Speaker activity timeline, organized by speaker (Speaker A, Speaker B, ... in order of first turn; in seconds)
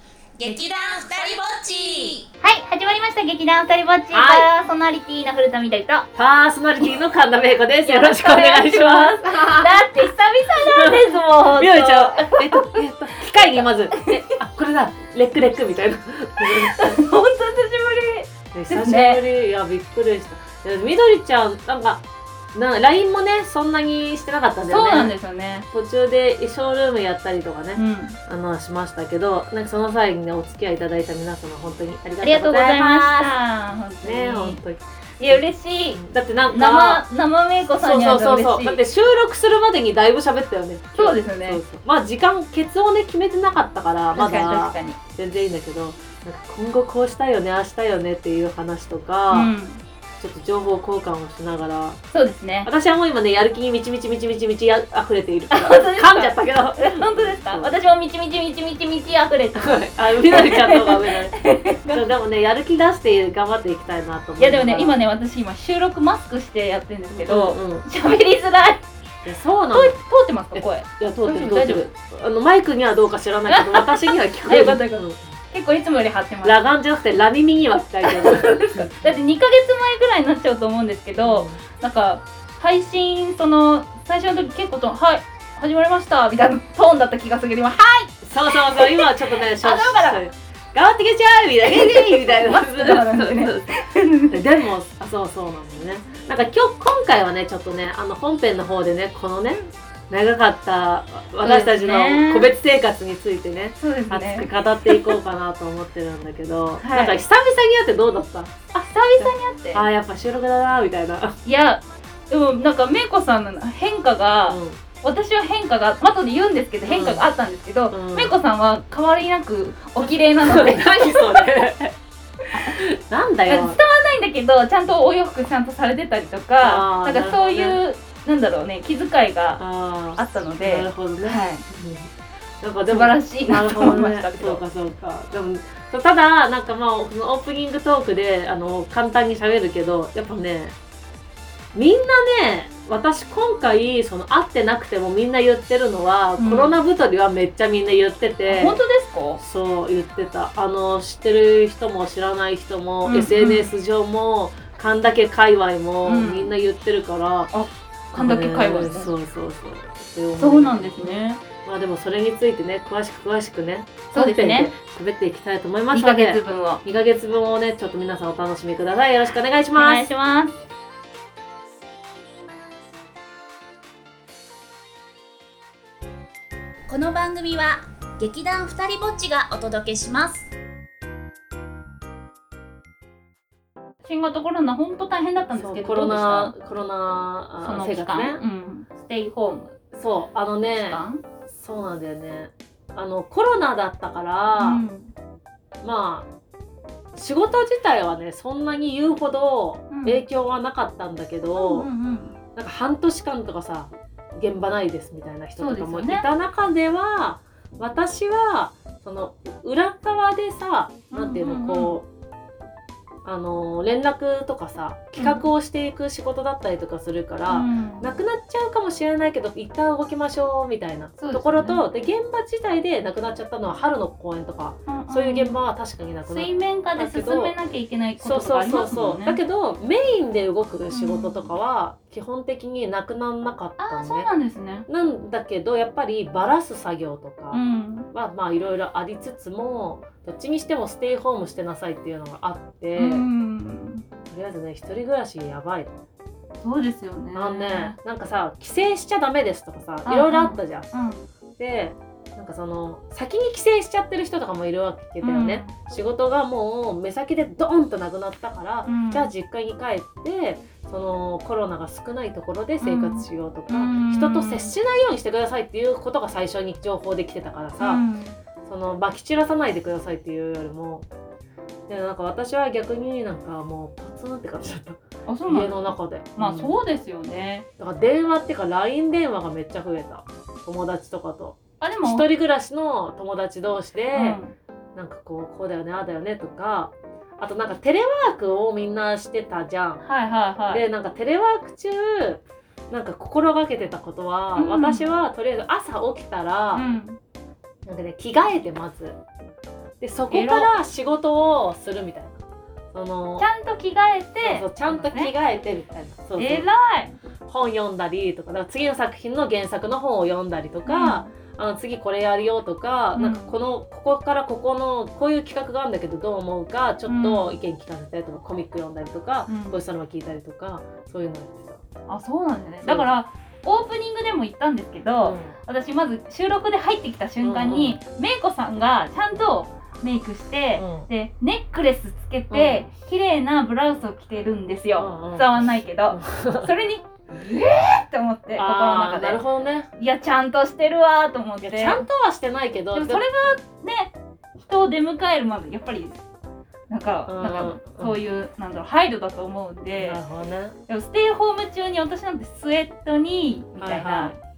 Speaker A: 0.4-2.2, 176.9-180.5
Speaker B: 0.4-1.3, 2.0-6.0, 7.8-12.8, 13.9-14.3, 16.4-19.2, 24.7-25.7, 27.7-28.2, 32.2-34.6, 35.2-38.8, 40.9-41.6, 44.1-45.0, 49.3-49.8, 52.1-52.7, 55.5-62.0, 64.4-68.8, 69.7-71.9, 73.5-76.6, 78.0-90.2, 91.6-94.4, 101.4-102.5, 103.8-105.2, 106.8-107.2, 108.7-109.9, 111.4-121.7, 122.5-122.8, 123.5-129.6, 130.1-131.6, 132.9-134.6, 146.4-146.8, 148.5-149.4, 153.0-153.7, 156.0-156.5, 157.5-159.1, 160.3-161.4, 164.1-164.7, 165.9-166.8, 169.7-170.5, 184.0-186.5, 187.6-189.8, 190.8-191.2, 194.6-195.1, 199.9-200.2, 201.5-202.4, 205.6-206.3, 211.1-212.0, 215.2-215.5, 217.5-218.1, 221.2-221.8, 224.8-225.6, 226.2-229.4, 230.9-231.5, 233.8-234.8, 237.5-238.1, 242.9-244.0, 246.6-247.9, 250.0-251.2, 255.2-255.7, 258.8-259.3, 262.8-264.7, 267.8-268.4, 275.2-275.8, 276.4-277.6, 281.8-282.2, 284.1-284.5, 290.0-290.8, 294.6-295.1, 296.7-297.2, 300.3-300.7, 303.4-305.3, 306.4-307.1, 310.8-311.3, 313.1-313.5, 317.1-317.6, 319.5-319.8, 322.1-339.4, 340.0-342.0, 342.9-346.2, 346.9-350.2, 350.9-354.4
Speaker C: 4.1-4.5, 6.1-10.1, 10.6-17.0, 18.5-25.1, 25.7-33.3, 34.0-37.0, 37.8-49.5, 50.2-52.0, 52.6-57.8, 59.5-65.0, 67.1-67.9, 69.2-70.0, 70.5-75.2, 76.4-79.2, 81.2-81.6, 88.2-93.7, 94.3-111.4, 114.5-114.8, 116.8-117.3, 117.9-118.4, 120.0-121.9, 122.5-123.8, 126.6-127.8, 129.6-140.7, 141.7-148.8, 149.4-157.5, 158.1-170.1, 185.5-188.4, 189.9-194.8, 195.8-196.3, 197.1-201.9, 202.5-212.1, 213.2-227.6, 228.2-234.3, 234.9-237.6, 238.1-243.2, 244.3-245.9, 247.3-251.0, 251.6-268.0, 268.6-271.1, 271.9-276.8, 277.8-284.4, 284.9-290.0, 290.7-296.9, 297.8-299.2, 300.0-302.4, 302.9-303.5, 304.4-306.7, 307.5-321.8, 322.8-323.2, 325.2-325.6, 327.4-328.0, 330.7-331.1, 332.5-332.9, 335.0-336.7, 338.5-339.9, 341.6-343.2, 347.3-348.2, 349.9-350.8, 353.8-354.4